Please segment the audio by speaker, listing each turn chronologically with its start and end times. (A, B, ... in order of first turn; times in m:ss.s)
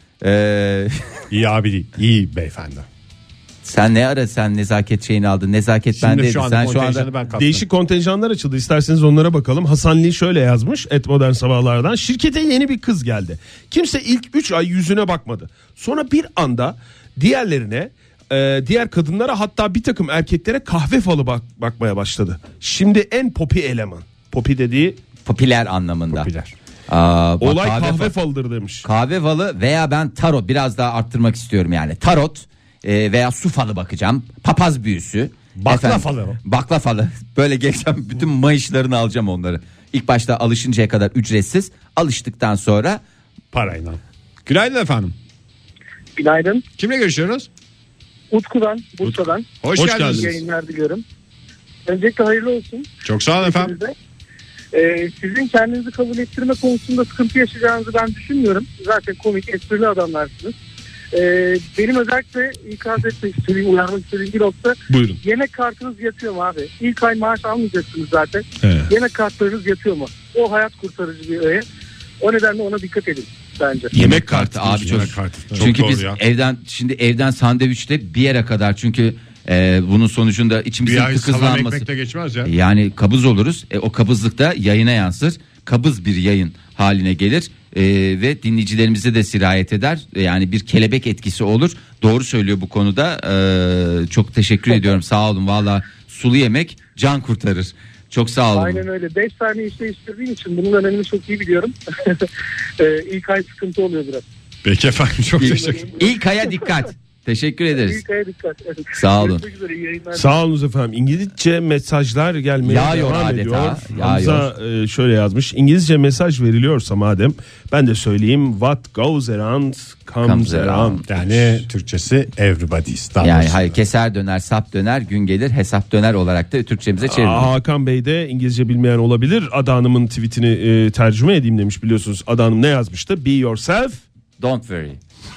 0:00.2-0:01.2 A
0:01.3-0:02.9 B
0:03.6-0:07.1 A
0:06.0-0:07.6 B
0:07.4-0:25.0 C
0:25.2-0:26.3 A
0:26.1-0:26.5 B
0:26.9-0:28.1 A
0:27.4-0:28.8 C
0:28.8-0:43.0 A
0:35.6-0:36.4 B
0:43.5-0:45.1 B
0:46.2-0:46.6 D
0:46.8-0:47.5 B
0:48.3-0:51.0 D
0:49.6-0:50.4 B
0:49.8-0:50.3 C
0:51.9-0:53.9 D
0:53.0-0:53.8 B
0:54.7-1:00.6 D
1:01.1-1:11.7 D
1:04.9-1:05.2 C
1:08.6-1:08.9 C
1:12.2-1:13.9 D
1:13.9-1:15.6 C
1:13.9-1:21.9 A
1:14.8-1:16.2 B
1:20.8-1:22.5 B
1:22.4-1:38.8 A
1:38.5-1:42.3 D
1:42.8-1:44.3 D
1:44.6-1:45.9 B
1:45.4-1:48.0 A
1:45.5-1:46.1 D
1:47.8-1:50.3 D
1:48.9-1:49.4 A
1:50.1-2:01.2 C
1:52.6-1:54.5 A
2:00.2-2:01.0 A
2:01.1-2:03.8 B
2:03.2-2:07.5 A
2:07.1-2:14.0 C
2:14.4-2:15.0 A